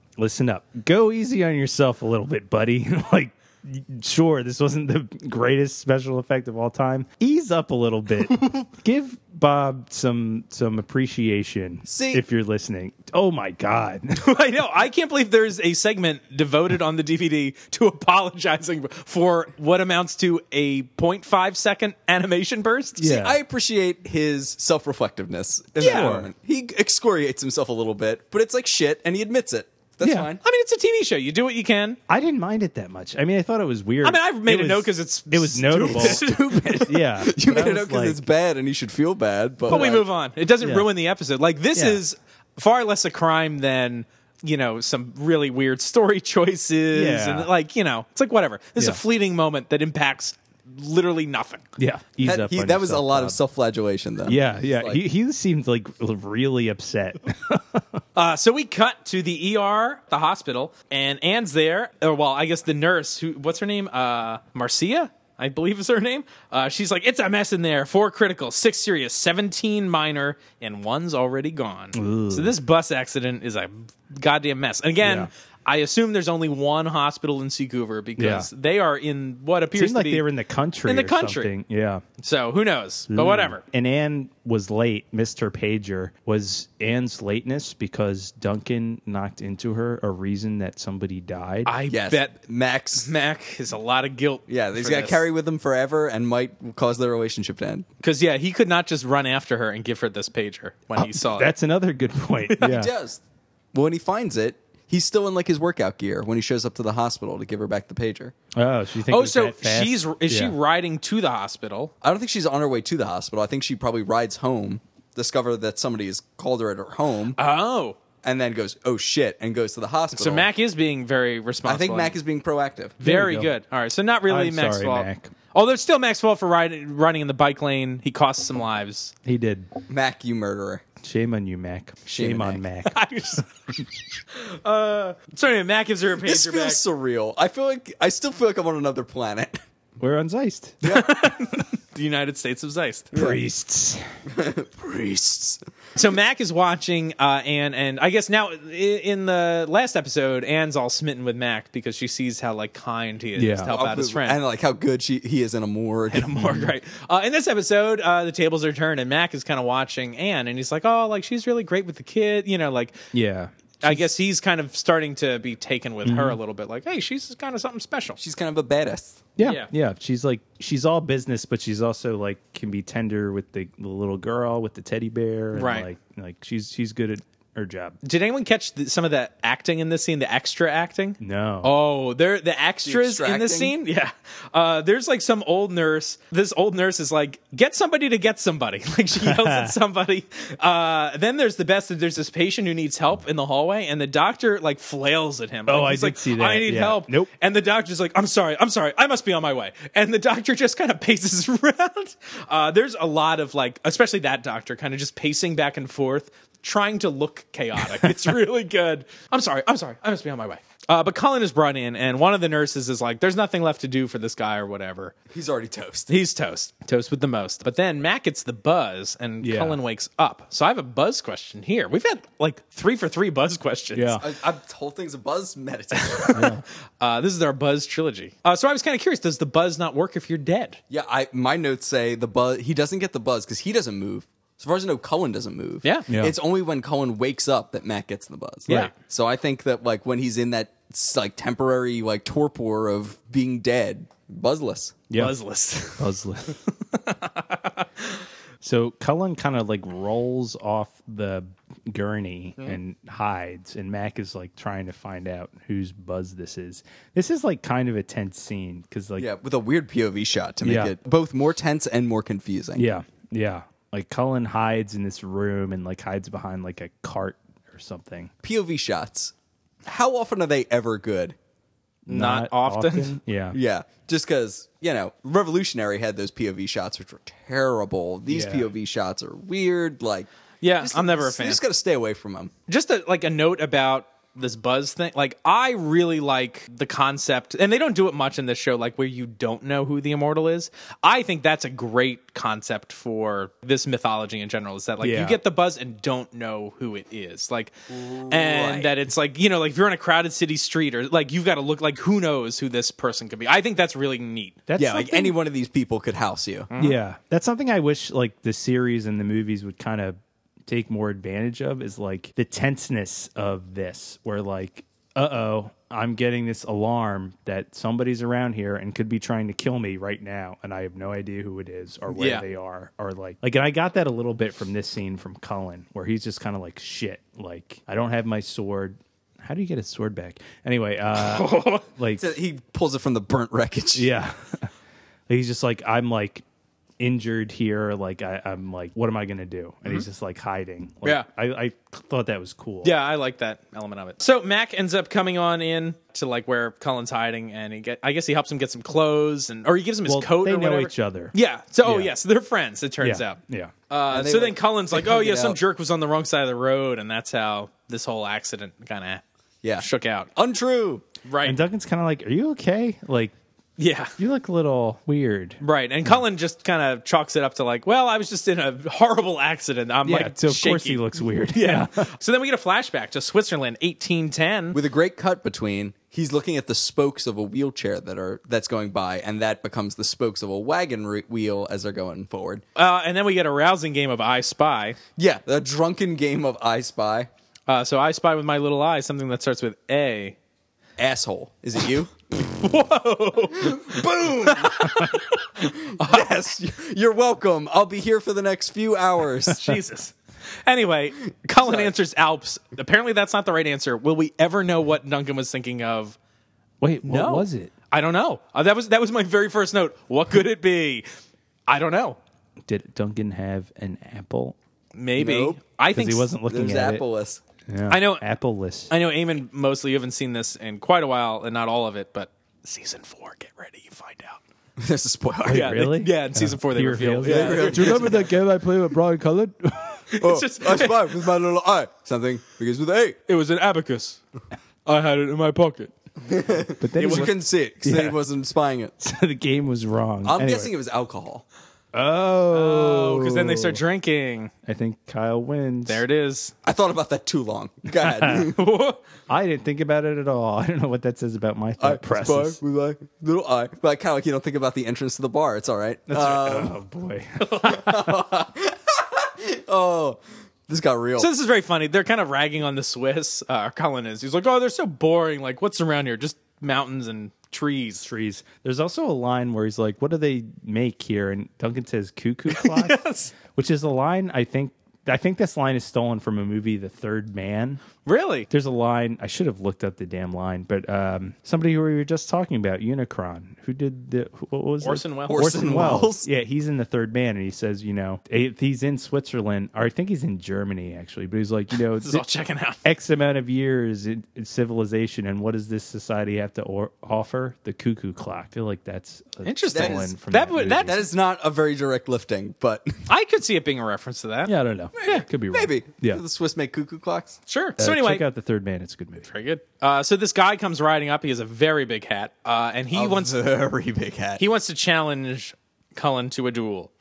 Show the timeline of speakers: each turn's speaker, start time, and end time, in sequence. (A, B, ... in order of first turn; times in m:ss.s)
0:00.2-0:14.2 A
0:11.9-0:12.2 B
0:14.2-0:23.2 C
0:23.0-0:23.4 A
0:23.0-0:30.4 B
0:25.8-0:26.1 C
0:25.8-0:26.3 A
0:30.0-0:30.3 A
0:30.4-0:32.0 C
0:32.1-0:38.2 A
0:34.0-0:36.8 C
0:35.8-0:40.1 B
0:39.7-0:51.6 C
0:40.6-0:40.9 A
0:41.7-0:42.0 A
0:46.9-0:47.5 A
0:51.8-0:53.4 A
0:52.2-0:55.0 B
0:54.3-0:58.0 A
0:58.2-1:20.3 C
1:11.9-1:12.6 A
1:15.0-1:15.3 A
1:18.2-1:18.5 A
1:19.7-1:22.0 A
1:20.9-1:21.5 C
1:22.2-1:23.6 C
1:23.1-1:31.7 A
1:31.7-1:32.3 C
1:31.9-1:33.1 B
1:33.0-1:35.2 C
1:34.5-1:37.9 B
1:38.0-1:41.5 C
1:41.0-1:42.9 A
1:42.6-1:43.2 B
1:43.7-1:48.3 B
1:48.6-1:50.6 A
1:49.1-1:51.9 C
1:52.0-1:57.4 B
1:57.4-1:58.0 C
1:58.2-2:00.5 B
2:00.1-2:02.2 C
2:01.6-2:03.0 B
2:03.0-2:03.5 A
2:03.0-2:09.1 C
2:04.3-2:05.3 A
2:09.2-2:09.7 A
2:09.9-2:10.8 B
2:11.0-2:13.0 A
2:12.1-2:12.6 B
2:12.9-2:13.5 C
2:14.3-2:16.8 C
2:16.2-2:19.6 B
2:20.0-2:20.8 A
2:20.8-2:21.1 B
2:20.8-2:23.1 C
2:23.1-2:23.4 B
2:23.1-2:24.1 A
2:24.3-2:25.6 B
2:26.0-2:34.4 C
2:33.4-2:33.7 A
2:33.7-2:36.3 B
2:36.1-2:43.0 C
2:36.4-2:36.7 A
2:43.1-2:44.1 A
2:43.8-2:48.2 C
2:46.0-2:46.4 A
2:48.2-2:49.2 B
2:49.4-2:58.0 A
2:49.4-2:49.7 C
2:55.5-2:55.9 C
2:58.0-3:35.1 C
3:01.2-3:01.7 A
3:02.8-3:03.8 B
3:09.2-3:09.8 A
3:15.7-3:17.3 A
3:35.3-3:36.1 B
3:36.1-3:44.2 C
3:39.4-3:39.8 A
3:43.9-3:44.2 A
3:44.2-3:46.5 B
3:46.1-3:46.4 C
3:46.3-3:46.6 A
3:47.0-3:50.8 C
3:50.9-4:05.0 B
3:56.1-3:56.4 A
4:05.1-4:05.4 A
4:05.2-4:06.1 C
4:05.9-4:06.6 A
4:06.9-4:07.9 C
4:08.6-4:19.3 A
4:19.2-4:22.8 B
4:20.6-4:21.0 A
4:22.8-4:28.3 A
4:28.4-4:29.3 B
4:29.8-4:31.4 B
4:32.1-4:33.6 A
4:32.1-4:33.2 C
4:33.5-4:40.3 B
4:38.3-4:38.7 A
4:40.6-4:41.6 C
4:40.8-4:42.5 B
4:42.7-4:57.7 C
4:55.0-4:55.4 A
4:57.9-4:58.9 B
4:58.3-5:04.6 C
5:04.7-5:05.4 A
5:04.8-5:06.7 B
5:06.7-5:07.0 C
5:06.8-5:32.2 A
5:22.1-5:22.4 C
5:31.2-5:31.8 C
5:32.2-5:34.1 B
5:34.0-5:34.7 A
5:35.3-5:36.4 A
5:37.0-5:42.9 A
5:42.8-5:53.4 C
5:50.1-5:52.2 A
5:53.0-5:53.7 A
5:53.9-5:59.2 C
5:54.1-5:55.6 B
5:59.6-6:01.0 B
5:59.8-6:00.3 C
6:01.2-6:01.6 C
6:01.4-6:03.3 A
6:03.8-6:04.1 C
6:04.2-6:05.6 A
6:05.6-6:14.8 C
6:10.0-6:12.1 A
6:14.7-6:22.6 B
6:22.8-6:25.0 C
6:25.2-6:27.3 B
6:27.7-6:30.4 C
6:31.0-6:32.1 B
6:32.4-6:36.3 C
6:33.6-6:39.8 B
6:39.5-6:46.2 C
6:41.6-6:41.9 B
6:46.8-6:47.7 A
6:47.0-6:51.1 C
6:51.7-6:52.2 C
6:52.6-6:54.6 A
6:55.0-6:56.3 C
6:55.2-6:55.6 B
6:55.9-6:57.0 A
6:56.5-6:57.4 B
6:57.7-6:58.9 A
6:57.9-6:58.2 C
6:58.9-7:04.4 C
7:04.8-7:05.8 B
7:05.4-7:10.1 A
7:05.5-7:08.3 C
7:07.2-7:08.3 B
7:10.1-7:11.2 C
7:10.2-7:13.2 B
7:13.3-7:14.2 C
7:14.9-7:15.9 C
7:16.3-7:18.9 B
7:16.8-7:18.2 A
7:17.0-7:17.3 C
7:19.0-7:20.7 A
7:20.2-7:21.4 B
7:21.9-7:23.8 A
7:22.5-7:24.5 C
7:24.7-7:26.0 A
7:25.9-7:26.5 C
7:26.6-7:28.6 B
7:28.0-7:28.5 A
7:28.3-7:29.0 C
7:29.3-7:32.6 A
7:31.8-7:36.8 B
7:36.1-7:38.1 A
7:37.4-7:37.9 C
7:37.7-7:41.3 B
7:41.2-7:48.1 C
7:48.0-7:57.8 A
7:52.5-7:53.3 C
7:58.1-7:58.5 C
7:58.5-8:12.2 A
8:04.8-8:05.8 C
8:05.3-8:06.3 B
8:12.0-8:12.8 C
8:12.8-8:21.1 A
8:19.4-8:21.0 C
8:19.7-8:20.1 B
8:20.8-8:23.0 B
8:23.1-8:25.3 C
8:24.4-8:26.2 A
8:25.0-8:27.4 B
8:27.5-8:28.2 C
8:27.8-8:29.3 A
8:29.3-8:33.4 C
8:32.9-8:34.4 B
8:34.4-8:36.9 C